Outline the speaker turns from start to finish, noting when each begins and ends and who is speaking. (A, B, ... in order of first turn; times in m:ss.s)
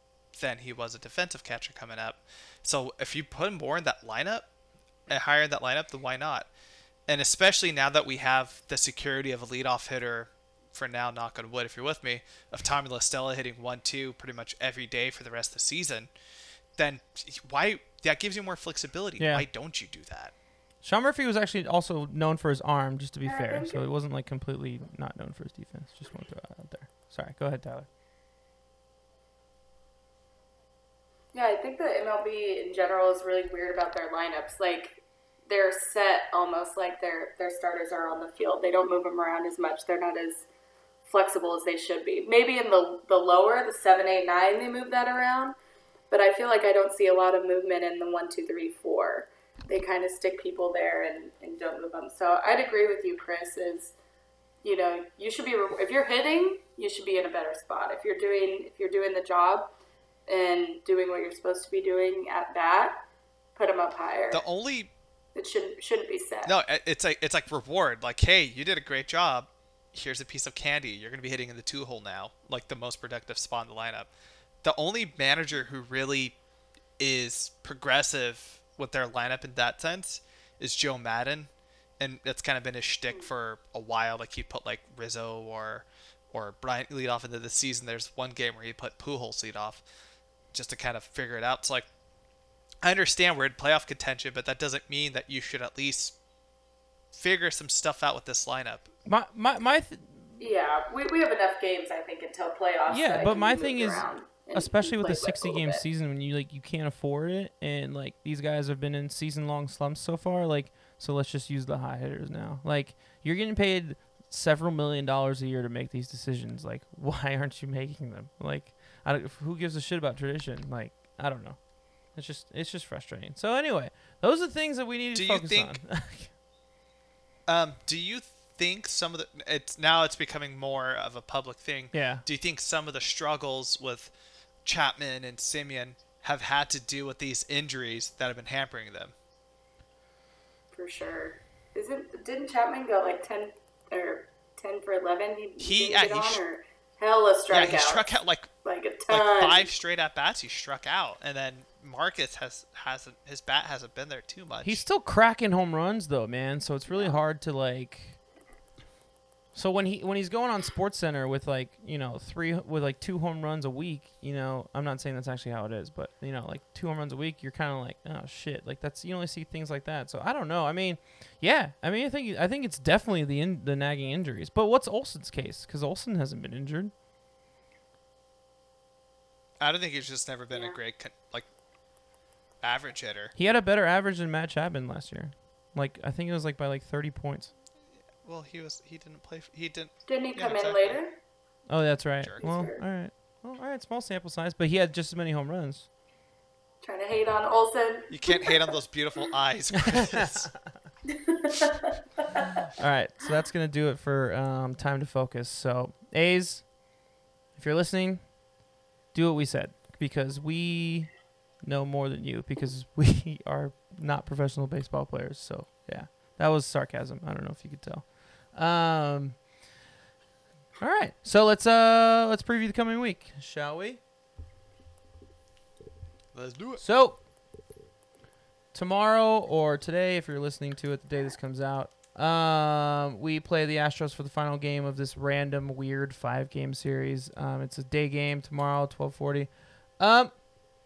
0:00.4-0:04.5 A
0:05.1-0:06.5 A
0:07.1-0:16.1 A
0:16.8-0:20.3 A
0:19.2-0:19.5 B
0:20.8-0:27.9 B
0:23.2-0:23.8 C
0:31.3-0:40.4 C
0:41.0-0:45.6 C
0:46.1-0:53.9 C
0:54.6-0:59.7 C
1:00.3-1:03.0 C
1:03.6-1:04.4 C
1:04.3-1:04.9 A
1:05.3-1:06.5 C
1:06.4-1:14.1 A
1:14.6-1:16.4 A
1:17.0-1:29.8 A
1:30.5-1:31.9 A
1:32.8-1:36.2 A
1:37.1-1:38.9 A
1:39.0-1:40.4 B
1:40.4-1:45.8 C
1:42.9-2:06.3 B
2:05.1-2:05.8 A
2:07.5-2:14.1 A
2:11.9-2:12.2 B
2:14.6-2:19.1 A
2:20.7-2:28.0 C
2:25.6-2:26.4 A
2:27.5-2:28.5 A
2:28.6-2:29.7 C
2:29.1-2:34.8 A
2:34.6-2:38.2 B
2:36.9-2:37.2 C
2:39.5-2:56.9 B
2:59.6-3:01.5 A
3:00.5-3:00.8 C
3:02.6-3:03.3 A
3:03.3-3:07.5 B
3:08.2-3:11.0 A
3:10.0-3:11.2 C
3:11.7-3:15.9 B
3:12.4-3:12.8 C
3:16.8-3:18.6 C
3:18.1-3:20.6 A
3:20.1-3:20.4 B
3:21.1-3:22.4 C
3:22.8-3:26.8 B
3:27.6-3:28.4 B
3:29.1-3:39.5 B
3:40.8-3:44.0 B
3:46.3-3:46.8 A
3:46.8-3:47.2 B
3:48.7-4:00.5 B